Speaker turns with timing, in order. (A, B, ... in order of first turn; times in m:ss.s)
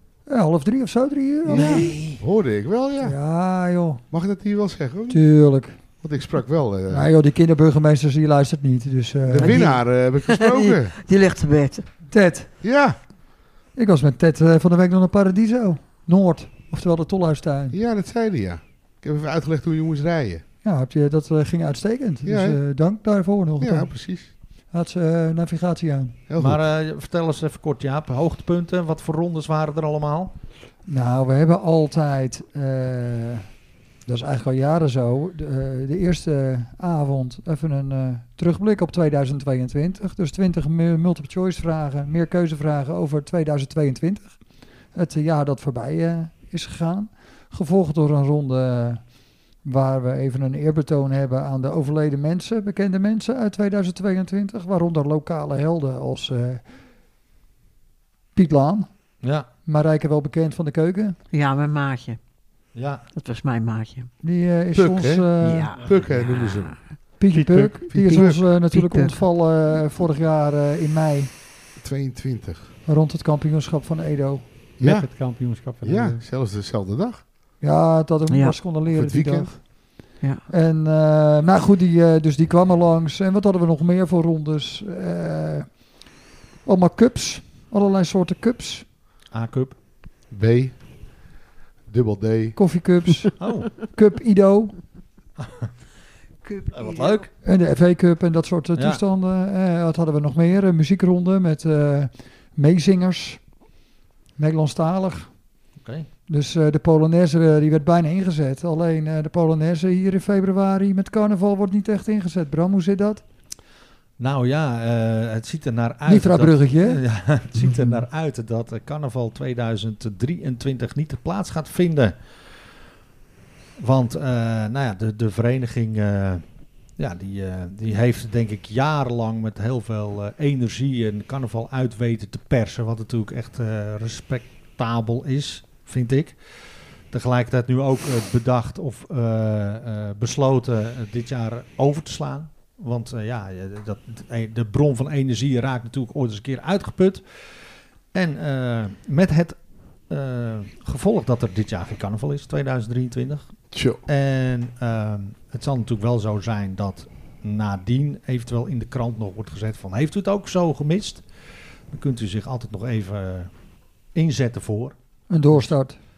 0:00.3-0:01.8 A
0:01.4-0:03.2 B
0:01.5-0:02.2 C
0:03.0-0:04.0 A
0:04.1-0:05.2 B
0:05.1-0:05.8 A
0:06.0-0:07.1 B
0:06.9-0:09.6 A
0:09.2-0:11.0 B
0:09.4-0:11.9 D
0:12.1-0:12.5 A
0:12.6-0:13.0 B
0:13.7-0:17.8 A
0:17.7-0:20.4 B
0:20.6-0:23.9 A
0:22.2-0:22.6 B
0:23.6-0:24.3 B
0:24.7-0:26.1 A
0:26.3-0:26.6 B
0:26.4-0:30.3 C
0:30.9-0:33.5 A
0:34.1-0:44.4 A
0:44.9-0:49.0 A
0:49.6-0:56.6 A
0:58.3-0:58.9 A
0:59.2-0:59.5 C
0:59.6-1:01.2 A
1:01.3-1:02.2 D
1:02.7-1:03.0 C
1:03.1-1:04.1 D
1:04.2-1:05.7 A
1:04.7-1:06.8 B
1:05.4-1:06.8 D
1:07.2-1:11.3 A
1:07.3-1:07.9 E
1:07.9-1:08.4 B
1:08.0-1:09.2 D
1:11.8-1:12.7 B
1:12.8-1:14.4 A
1:14.8-1:15.1 B
1:14.8-1:16.2 E
1:15.8-1:17.2 B
1:17.6-1:19.8 A
1:18.3-1:18.6 D
1:18.9-1:19.6 B
1:20.5-1:25.7 A
1:26.6-1:28.8 A
1:29.3-1:29.7 C
1:30.3-1:30.8 B
1:31.9-1:32.6 B
1:32.6-1:34.8 A
1:33.4-1:33.7 C
1:35.4-1:35.7 C
1:36.4-1:37.3 D
1:36.7-1:37.3 C
1:37.4-1:43.4 A
1:44.4-1:45.3 A
1:45.8-1:46.1 C
1:46.3-1:53.2 A
1:54.2-2:02.2 C
1:56.1-1:57.0 A
2:03.8-2:06.4 C
2:07.0-2:29.6 C
2:30.1-2:41.2 C
2:33.7-2:34.0 B
2:41.9-2:43.5 C
2:44.1-2:45.0 C
2:45.3-2:46.0 A